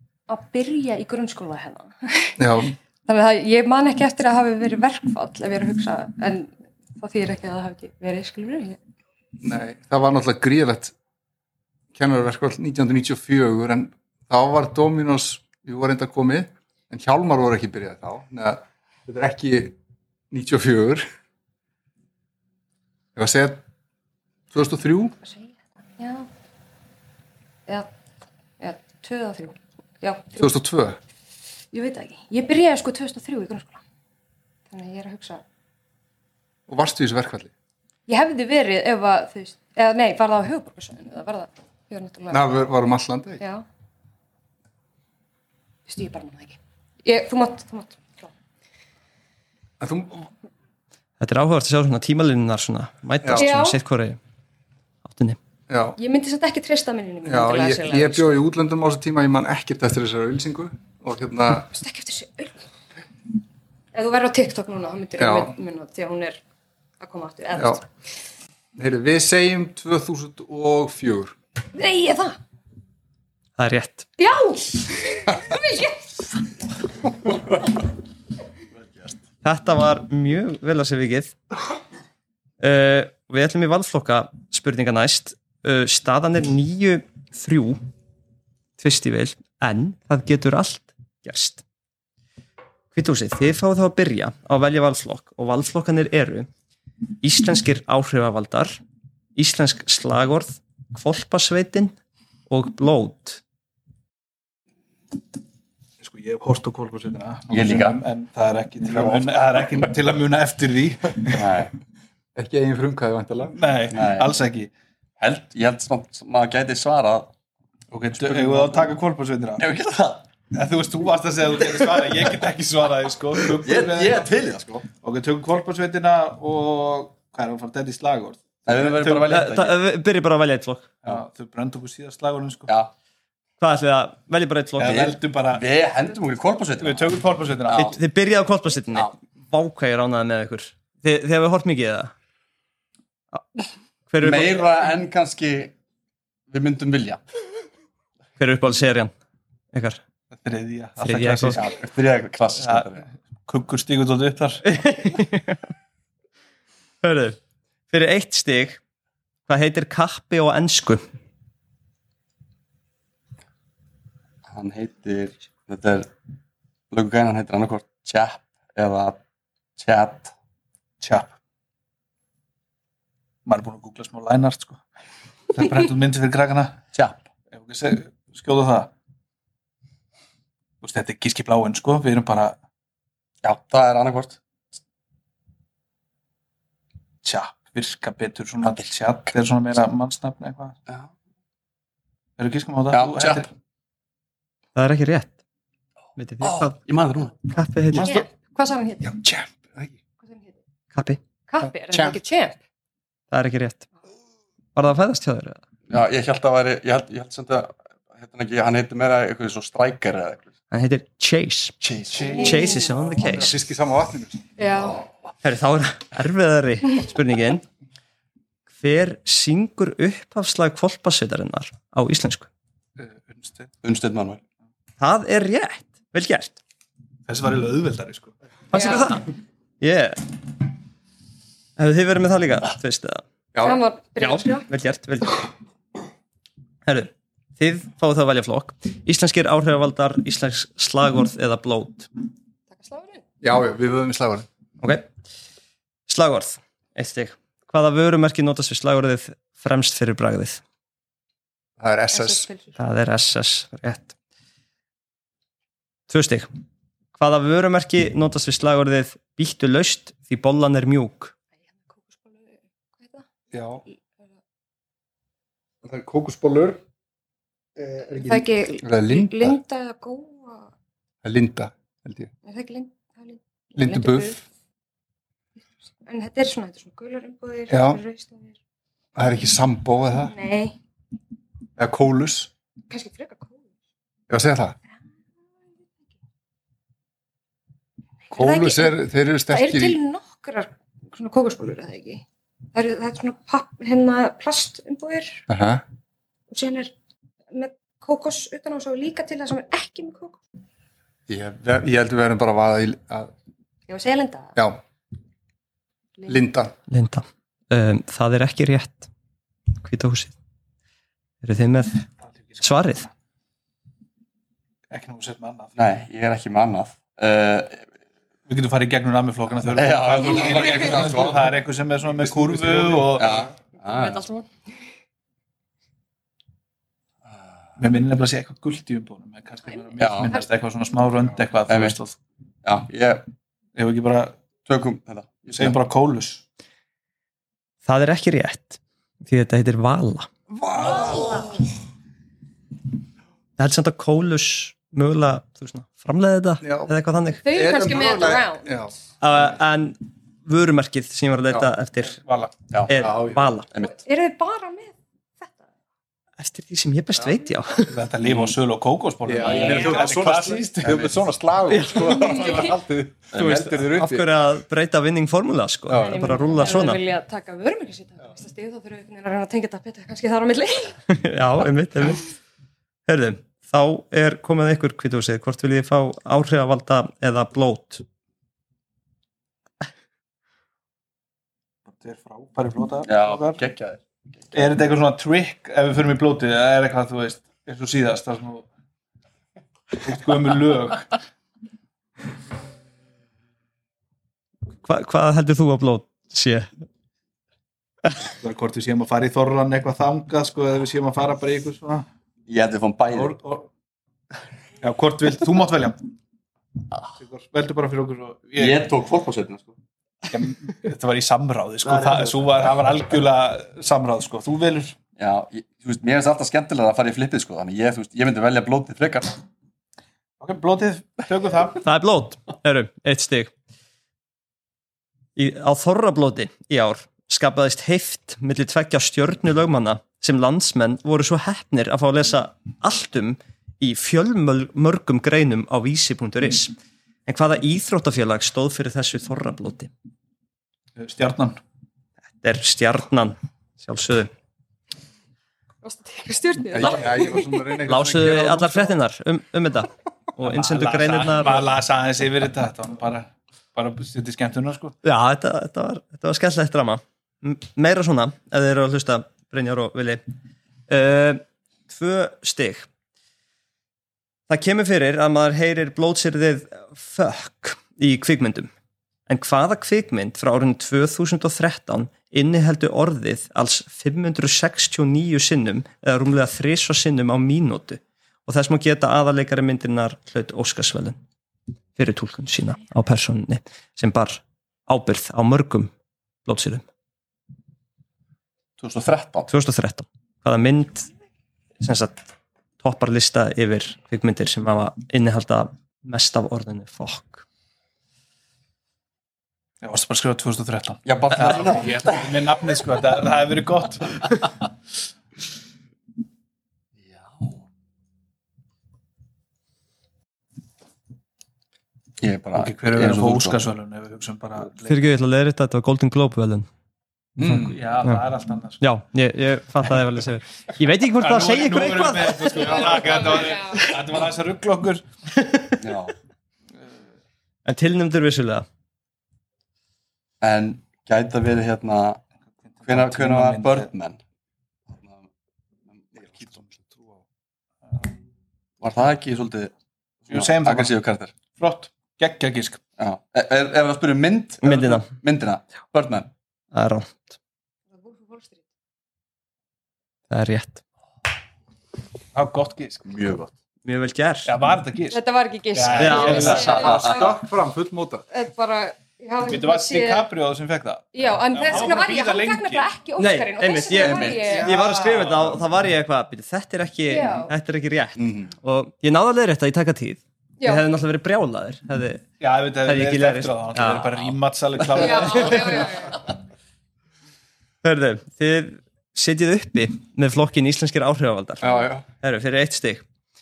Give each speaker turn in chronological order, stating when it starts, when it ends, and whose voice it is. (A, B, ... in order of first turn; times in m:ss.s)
0:00.3-0:02.4 A
0:02.4-0:02.7 B
0:03.0-0:08.8 A
0:09.4-0:10.9 B
0:11.9-0:19.8 B
0:20.3-0:21.1 B
0:23.2-0:23.6 B
0:24.5-0:25.2 B
0:25.2-0:26.3 A
0:28.6-0:30.5 A
0:30.4-0:31.0 B
0:31.7-0:33.8 A
0:34.7-0:35.4 A
0:36.7-0:37.5 B
0:38.1-0:42.4 A
0:42.3-0:43.4 B
0:43.4-0:43.6 A
0:45.9-0:48.3 A
0:49.8-0:50.3 B
0:51.2-0:54.2 C
0:53.4-0:53.8 A
0:55.0-0:55.4 C
0:55.7-0:56.0 B
0:56.0-0:58.4 A
0:57.2-1:01.7 B
1:01.7-1:02.6 A
1:03.9-1:06.4 A
1:05.2-1:05.5 B
1:07.0-1:07.8 A
1:07.5-1:07.8 B
1:08.8-1:11.3 B
1:11.7-1:12.4 A
1:13.6-1:14.1 C
1:14.2-1:16.4 A
1:19.4-1:21.4 C
1:22.6-1:27.8 C
1:28.8-1:31.6 C
1:32.9-1:36.5 C
1:37.2-1:38.8 C
1:39.4-1:41.9 C
1:42.5-1:43.4 C
1:46.0-1:51.5 D
1:47.5-1:48.0 E
1:48.9-1:49.3 E
1:51.3-1:51.7 E
1:52.4-1:53.6 B
1:53.5-1:54.7 D
1:53.9-1:54.3 E
1:55.2-1:57.3 E
1:57.9-1:59.6 D
1:58.2-1:58.9 E
1:59.6-2:00.2 E
2:00.5-2:04.3 D
2:03.5-2:04.8 E
2:05.0-2:09.3 D
2:08.6-2:09.8 E
2:09.3-2:10.9 C
2:11.0-2:12.7 D
2:12.7-2:12.9 E
2:13.6-2:15.0 C
2:14.8-2:15.6 D
2:14.8-2:18.0 E
2:16.8-2:17.9 D
2:17.7-2:22.1 C
2:24.1-2:24.6 C
2:24.2-2:25.7 E
2:26.5-2:27.2 E
2:28.4-2:29.1 C
2:29.7-2:30.0 C
2:30.3-2:31.8 D
2:31.0-2:31.6 C
2:31.6-2:33.0 E
2:32.6-2:34.6 D
2:34.6-2:35.6 C
2:37.0-2:37.4 C
2:37.9-2:38.8 C
2:39.5-2:41.0 C
2:44.5-2:46.1 E
2:46.9-2:49.2 E
2:49.8-2:50.3 E
2:51.0-2:51.3 D
2:53.4-2:54.8 D
2:55.5-2:56.8 D
2:56.9-2:57.2 E
2:57.5-2:58.9 D
3:00.8-3:02.6 D
3:03.4-3:04.4 E
3:07.2-3:10.8 D
3:12.4-3:13.5 D
3:12.9-3:13.4 E
3:14.8-3:15.3 C
3:16.2-3:16.8 C
3:16.4-3:17.4 E
3:17.5-3:18.2 C
3:18.0-3:19.1 A
3:19.0-3:19.9 B
3:20.2-3:20.5 A
3:20.9-3:21.2 C
3:21.5-3:22.6 A
3:21.9-3:22.2 B
3:23.3-3:23.9 C
3:24.8-3:25.6 C
3:25.9-3:30.5 E
3:30.7-3:31.8 C
3:31.8-3:32.5 E
3:32.1-3:33.0 D
3:32.4-3:32.8 A
3:32.4-3:33.5 C
3:33.1-3:34.4 B
3:34.6-3:35.0 A
3:35.4-3:37.6 C
3:38.8-3:42.5 C
3:43.0-3:43.7 D
3:43.8-3:44.4 E
3:45.0-3:46.6 C
3:47.3-3:48.3 D
3:48.7-3:49.3 C
3:48.7-3:49.1 A
3:49.8-3:50.3 C
3:51.8-3:53.2 C
3:53.5-3:53.8 B
3:53.6-3:54.7 A
3:54.2-3:55.5 C
3:56.8-4:02.1 C
4:02.7-4:03.2 A
4:03.4-4:04.5 B
4:04.8-4:05.1 C
4:06.1-4:10.6 C
4:11.8-4:12.5 B
4:12.1-4:12.8 A
4:12.8-4:14.1 C
4:16.1-4:16.5 C
4:17.1-4:21.3 C
4:21.9-4:23.2 A
4:23.5-4:23.8 B
4:25.8-4:26.8 B
4:27.8-4:29.6 B
4:28.2-4:30.7 A
4:31.2-4:32.3 B
4:32.4-4:34.4 A
4:33.8-4:34.4 B
4:36.0-4:38.6 A
4:37.7-4:38.0 B
4:39.2-4:40.3 B
4:40.2-4:40.8 A
4:41.8-4:42.5 B
4:42.9-4:43.6 A
4:44.3-4:44.8 B
4:48.3-4:55.4 A
4:48.3-4:50.0 B
4:55.5-4:55.8 B
4:56.5-4:56.9 A
4:57.5-5:00.4 A
5:01.3-5:03.3 B
5:03.9-5:04.6 A
5:06.3-5:06.7 B
5:06.9-5:09.1 C
5:09.8-5:10.3 C
5:11.4-5:12.0 C
5:12.4-5:13.0 D
5:12.6-5:13.1 C
5:14.9-5:15.7 D
5:15.8-5:17.8 E
5:18.5-5:23.5 D
5:19.7-5:21.5 E
5:22.3-5:24.2 E
5:23.9-5:24.5 A
5:27.8-5:32.2 D
5:30.0-5:30.3 E
5:31.7-5:32.0 E
5:32.6-5:33.3 E
5:33.8-5:34.4 D
5:34.7-5:35.8 E
5:35.5-5:36.4 D
5:37.8-5:40.3 C
5:40.5-5:41.6 B
5:43.6-5:47.4 C
5:46.6-5:46.9 B
5:47.4-5:48.7 A
5:47.5-5:48.9 B
5:49.2-5:52.2 C
5:52.2-5:52.5 D
5:52.7-5:54.0 E
5:52.9-5:53.7 C
5:52.9-5:53.4 B
5:53.8-5:55.6 A
5:56.4-5:58.0 C
5:57.8-6:01.0 D
5:58.2-5:58.5 E
5:59.2-6:04.3 B
5:59.4-6:00.2 E
6:00.8-6:01.1 E
6:01.7-6:02.6 C
6:02.1-6:02.7 A
6:03.3-6:07.0 C
6:03.3-6:03.6 E
6:05.9-6:06.3 B
6:06.0-6:11.0 A
6:11.1-6:12.2 C
6:13.1-6:18.0 C
6:21.9-6:23.6 D
6:23.0-6:24.6 E
6:24.5-6:28.7 D
6:30.0-6:31.1 D
6:34.8-6:36.7 C
6:38.2-6:42.0 D
6:42.5-6:43.4 E
6:43.1-6:43.7 D
6:44.8-6:46.0 D
6:47.1-6:48.9 D
6:48.6-6:49.7 E
6:50.3-6:55.0 D
6:52.0-6:52.3 E
6:55.2-6:59.3 E
7:00.4-7:01.8 D
7:01.8-7:03.5 C
7:05.4-7:16.7 C
7:17.3-7:19.9 C
7:21.0-7:21.6 D
7:22.4-7:24.3 C
7:25.8-7:27.6 A
7:26.7-7:28.9 B
7:27.8-7:31.7 C
7:30.4-7:34.9 D
7:35.0-7:40.2 C
7:40.9-7:42.9 C
7:44.5-7:48.7 C
7:49.3-8:01.2 C
8:02.0-8:05.9 C
8:06.4-8:06.8 C
8:08.8-8:09.5 E
8:09.5-8:11.1 C
8:11.8-8:12.2 C
8:12.8-8:17.4 C
8:19.8-8:24.5 D
8:21.0-8:22.4 E
8:27.0-8:27.6 E
8:32.2-8:33.6 E
8:32.5-8:35.2 D
8:34.8-8:36.7 C
8:37.4-8:38.8 D
8:37.4-8:37.7 B
8:38.8-8:42.8 C
8:41.2-8:45.0 D
8:42.6-8:44.0 A
8:45.8-8:46.1 E
8:47.6-8:48.6 C
8:50.4-8:52.2 E
8:52.6-8:53.9 D
8:52.8-8:54.2 E
8:54.9-8:55.2 E
8:56.2-8:57.2 B
8:58.8-8:59.7 E
9:00.3-9:01.3 E
9:00.3-9:00.9 D
9:01.6-9:02.8 D
9:03.0-9:06.3 E
9:04.6-9:05.1 C
9:06.7-9:07.3 C
9:07.9-9:08.6 A
9:10.3-9:10.8 C
9:12.3-9:13.1 D
9:13.0-9:13.5 E
9:13.8-9:14.5 C
9:14.4-9:15.2 D
9:15.1-9:17.3 A
9:15.7-9:17.0 D
9:16.0-9:16.9 C
9:16.1-9:17.3 E
9:16.7-9:18.2 B
9:18.3-9:20.2 A
9:19.4-9:22.9 D
9:21.1-9:24.7 A
9:23.2-9:32.2 C
9:23.9-9:24.6 E
9:24.7-9:25.5 D
9:27.0-9:27.5 A
9:28.2-9:28.5 B
9:32.4-9:36.0 D
9:32.8-9:34.1 C
9:35.0-9:36.2 A
9:37.8-9:43.0 C